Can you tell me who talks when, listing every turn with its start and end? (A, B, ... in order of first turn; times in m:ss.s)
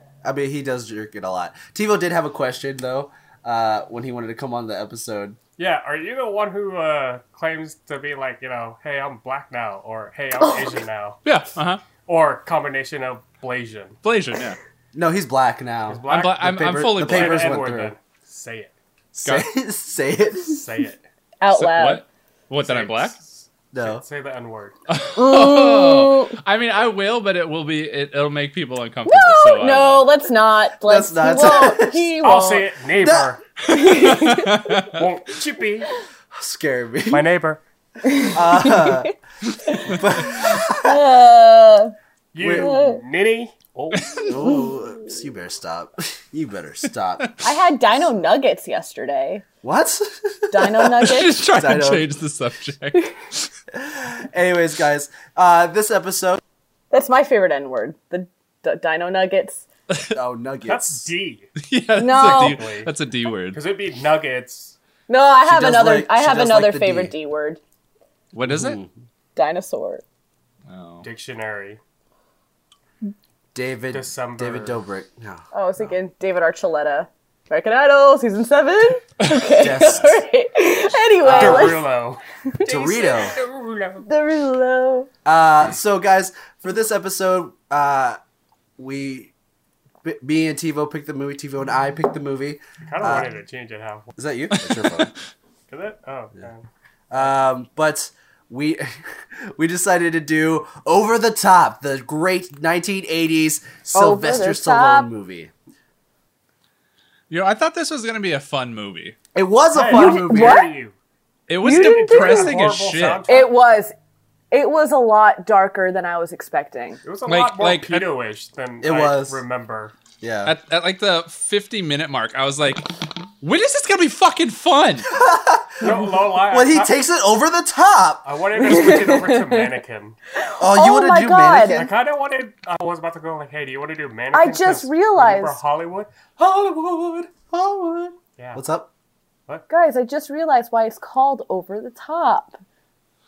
0:00.2-0:05.4 A
0:05.6-0:11.2 B
0:11.2-0:11.8 C
0:12.0-0:14.0 B
0:14.0-0:14.6 C
0:14.9-0:17.9 A
0:15.9-0:18.7 B
0:16.1-0:17.5 C
0:19.1-0:20.6 A
0:20.4-0:21.0 B
0:21.4-0:22.0 D
0:21.5-0:23.2 C
0:22.6-0:24.8 B
0:23.7-0:24.0 A
0:24.9-0:30.0 C
0:25.1-0:26.4 D
0:29.0-0:32.7 D
0:30.8-0:32.1 A
0:32.2-0:33.4 B
0:33.0-0:33.3 A
0:33.7-0:34.6 D
0:33.8-0:35.0 C
0:34.8-0:35.9 B
0:36.3-0:37.2 A
0:37.1-0:37.6 B
0:38.0-0:39.1 D
0:38.2-0:39.1 A
0:39.6-0:41.9 D
0:39.8-0:41.0 A
0:42.3-0:44.3 B
0:42.4-0:42.7 A
0:42.6-0:43.0 D
0:43.9-0:44.2 C
0:44.2-0:47.3 A
0:44.4-0:44.7 D
0:47.4-0:49.4 D
0:49.6-0:50.9 A
0:50.5-0:51.4 D
0:51.0-0:53.5 C
0:51.5-0:52.1 A
0:53.7-0:56.4 A
0:56.9-0:59.7 D
0:59.9-1:00.2 C
1:00.1-1:01.1 A
1:00.6-1:01.5 B
1:01.6-1:03.6 C
1:02.0-1:02.6 D
1:02.1-1:02.9 B
1:03.5-1:04.8 B
1:05.1-1:07.6 D
1:05.4-1:07.1 A
1:08.3-1:08.8 C
1:08.4-1:08.9 A
1:09.4-1:10.0 D
1:10.6-1:11.1 C
1:11.0-1:11.8 B
1:13.5-1:15.9 A
1:13.9-1:14.8 B
1:15.5-1:21.9 D
1:19.2-1:19.7 C
1:19.6-1:20.1 A
1:21.2-1:24.0 B
1:21.3-1:21.8 A
1:22.6-1:23.3 A
1:24.0-1:25.1 D
1:25.2-1:28.2 A
1:28.8-1:29.3 A
1:30.0-1:33.3 A
1:32.8-1:34.1 B
1:34.2-1:35.1 A
1:34.5-1:35.1 C
1:35.7-1:37.4 B
1:37.1-1:45.5 A
1:43.9-1:45.1 D
1:47.3-1:49.2 C
1:49.3-1:50.6 A
1:49.7-1:51.0 B
1:49.9-1:50.7 D
1:51.5-1:53.2 C
1:51.6-1:52.6 D
1:51.6-1:53.5 B
1:53.3-1:53.9 D
1:54.5-1:57.0 D
1:57.0-1:59.9 B
1:57.2-1:58.1 C
1:58.8-1:59.4 A
2:00.2-2:00.6 A
2:00.4-2:05.1 C
2:05.1-2:08.2 A
2:05.8-2:06.9 B
2:08.2-2:10.2 B
2:08.6-2:09.7 D
2:10.4-2:11.9 D
2:10.6-2:11.9 A
2:11.7-2:16.3 B
2:14.3-2:15.6 D
2:16.4-2:18.9 A
2:18.4-2:18.6 B
2:19.7-2:22.6 D